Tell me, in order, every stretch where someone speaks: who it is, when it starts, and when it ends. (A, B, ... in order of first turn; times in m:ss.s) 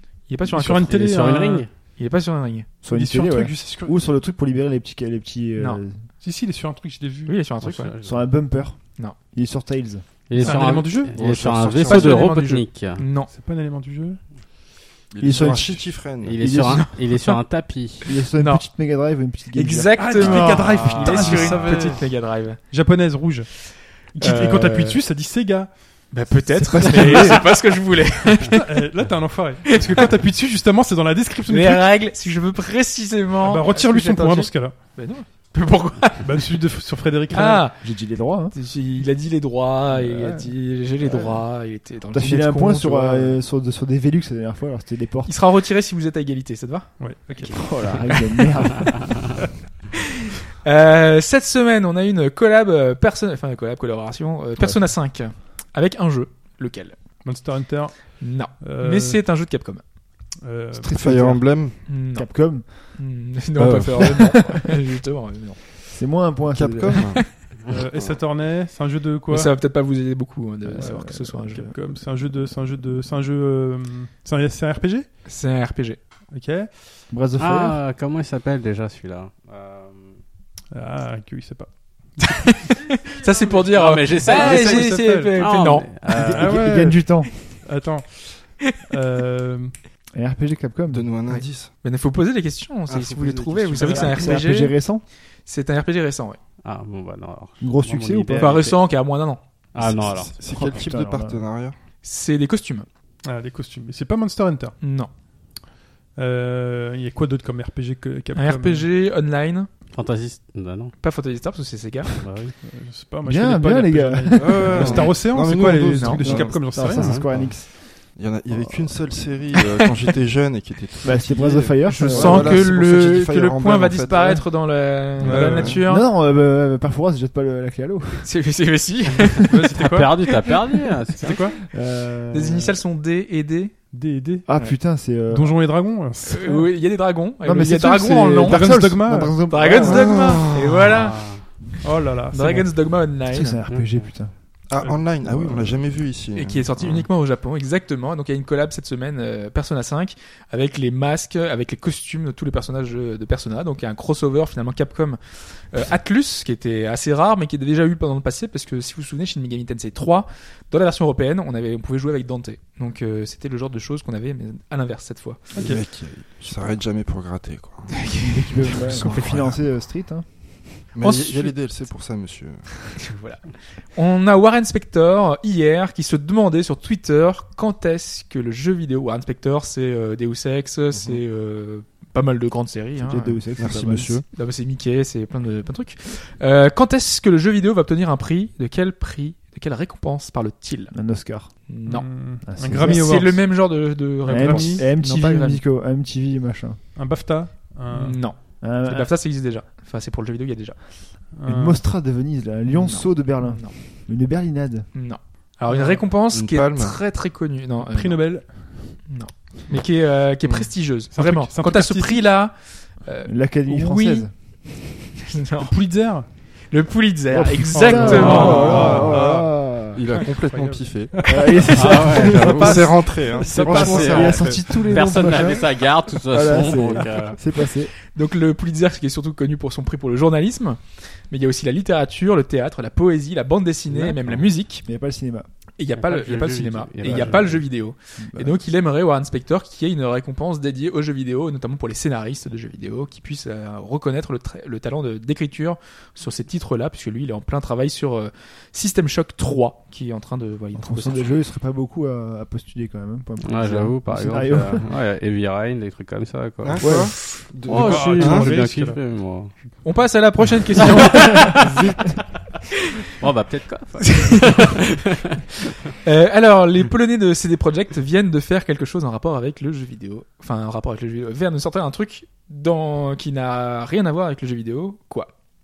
0:00.3-0:00.9 A
0:00.5-0:01.6 B
0:00.9-0:01.7 C
0:02.0-0:02.7 A
0:02.8-0:06.0 D
0:02.9-0:03.9 B
0:06.2-0:07.4 B
0:07.2-0:07.9 A
0:07.6-0:08.3 C
0:08.0-0:10.6 D
0:10.3-0:13.0 C
0:10.4-0:11.2 B
0:11.1-0:12.2 E
0:11.9-0:12.6 B
0:11.9-0:13.3 A
0:13.2-0:14.2 B
0:15.1-0:16.4 E
0:15.2-0:16.9 D
0:16.2-0:18.0 C
0:16.7-0:17.4 A
0:18.0-0:20.7 D
0:18.4-0:18.6 A
0:19.5-0:22.6 A
0:20.0-0:22.0 B
0:21.1-0:21.8 E
0:22.6-0:26.2 B
0:24.2-0:25.0 A
0:26.1-0:28.6 A
0:26.5-0:27.4 D
0:27.0-0:27.3 B
0:28.5-0:32.0 B
0:29.6-0:30.1 A
0:31.5-0:36.5 A
0:33.4-0:34.8 B
0:36.2-0:37.8 B
0:37.3-0:43.4 A
0:37.8-0:38.5 D
0:40.0-0:40.4 D
0:42.1-0:45.3 D
0:45.2-0:48.9 A
0:47.0-0:47.6 B
0:47.5-0:49.3 D
0:50.6-0:57.0 A
0:54.6-0:54.9 D
0:57.2-0:59.2 B
0:58.2-0:59.8 A
1:00.4-1:00.9 B
1:00.8-1:03.0 D
1:00.9-1:01.8 E
1:01.8-1:05.6 A
1:03.6-1:04.2 E
1:03.9-1:04.6 D
1:05.8-1:07.3 D
1:06.5-1:07.3 E
1:07.7-1:09.5 B
1:09.3-1:11.7 A
1:10.7-1:11.7 D
1:10.8-1:15.0 B
1:15.2-1:16.0 A
1:16.3-1:16.7 B
1:17.1-1:17.8 D
1:17.4-1:20.2 C
1:20.7-1:22.5 B
1:22.3-1:25.9 A
1:23.4-1:26.6 C
1:24.2-1:25.4 B
1:26.1-1:27.3 D
1:26.1-1:29.7 B
1:30.1-1:31.0 D
1:30.9-1:31.7 E
1:31.3-1:34.8 A
1:32.9-1:35.0 D
1:33.7-1:34.3 E
1:35.4-1:36.4 A
1:36.6-1:38.8 C
1:37.6-1:38.7 D
1:38.4-1:39.4 A
1:39.7-1:40.4 C
1:39.8-1:41.8 E
1:40.5-1:41.5 D
1:42.0-1:42.8 A
1:43.2-1:44.8 B
1:44.8-1:45.1 A
1:46.2-1:48.9 B
1:48.3-1:49.7 A
1:49.9-1:51.0 C
1:51.0-1:52.1 A
1:52.2-1:52.5 C
1:52.6-1:57.3 B
1:53.2-1:55.2 D
1:54.4-2:04.4 E
1:55.9-1:56.2 A
1:56.2-1:59.1 D
1:56.9-1:57.3 C
2:01.0-2:02.7 D
2:01.8-2:06.1 A
2:05.2-2:05.8 B
2:05.2-2:05.8 E
2:05.7-2:08.3 D
2:08.2-2:10.6 A
2:09.5-2:10.1 B
2:09.7-2:11.5 C
2:11.2-2:11.6 B
2:11.6-2:12.8 D
2:12.3-2:13.7 A
2:13.9-2:14.5 B
2:14.4-2:15.9 D
2:15.3-2:16.7 B
2:16.2-2:18.9 A
2:17.4-2:20.4 D
2:18.4-2:19.5 B
2:19.5-2:21.3 A
2:19.8-2:21.0 E
2:21.1-2:21.4 C
2:21.8-2:22.9 B
2:22.3-2:23.6 A
2:23.3-2:24.3 D
2:23.7-2:24.0 C
2:24.7-2:27.1 E
2:24.8-2:25.0 B
2:25.2-2:25.6 D
2:26.3-2:45.4 A
2:45.5-2:45.8 B
2:45.5-2:48.1 E
2:48.0-2:49.6 A
2:48.2-2:50.8 D
2:48.7-2:49.5 E
2:50.9-2:52.7 E
2:51.0-2:51.5 A
2:53.0-2:53.4 A
2:53.9-3:03.4 A
3:00.9-3:01.2 E
3:03.0-3:04.2 D
3:03.6-3:04.2 E
3:04.3-3:11.1 A
3:10.9-3:11.6 D
3:11.7-3:15.6 A
3:11.8-3:14.8 B
3:12.4-3:13.3 D
3:14.3-3:16.8 D
3:16.9-3:18.4 B
3:17.9-3:20.8 A
3:18.6-3:19.1 D
3:21.3-3:21.8 B
3:21.4-3:24.9 D
3:22.7-3:23.7 A
3:24.9-3:34.3 A
3:26.3-3:27.0 E
3:27.8-3:29.0 B
3:31.1-3:32.3 B
3:33.2-3:34.3 D
3:35.3-3:35.7 A
3:35.6-3:36.3 B
3:36.7-3:38.7 A
3:37.3-3:40.0 D
3:37.7-3:44.4 B
3:38.2-3:38.8 C
3:38.4-3:39.4 E
3:39.9-3:41.1 E
3:41.2-3:42.8 D
3:41.7-3:47.4 C
3:42.1-3:44.8 E
3:43.5-3:47.9 D
3:43.6-3:44.2 A
3:48.1-3:54.8 A
3:54.0-3:54.4 C
3:54.8-3:55.5 D
3:55.8-4:11.4 A
3:55.9-3:57.6 C
3:57.0-3:57.5 D
3:58.2-3:58.6 D
4:10.7-4:14.8 D
4:13.4-4:17.0 C
4:16.6-4:18.5 E
4:16.8-4:17.2 D
4:17.7-4:19.5 C
4:17.7-4:19.0 B
4:19.8-4:21.8 A
4:21.2-4:21.5 C
4:23.2-4:25.2 C
4:24.1-4:24.8 A
4:26.0-4:35.3 A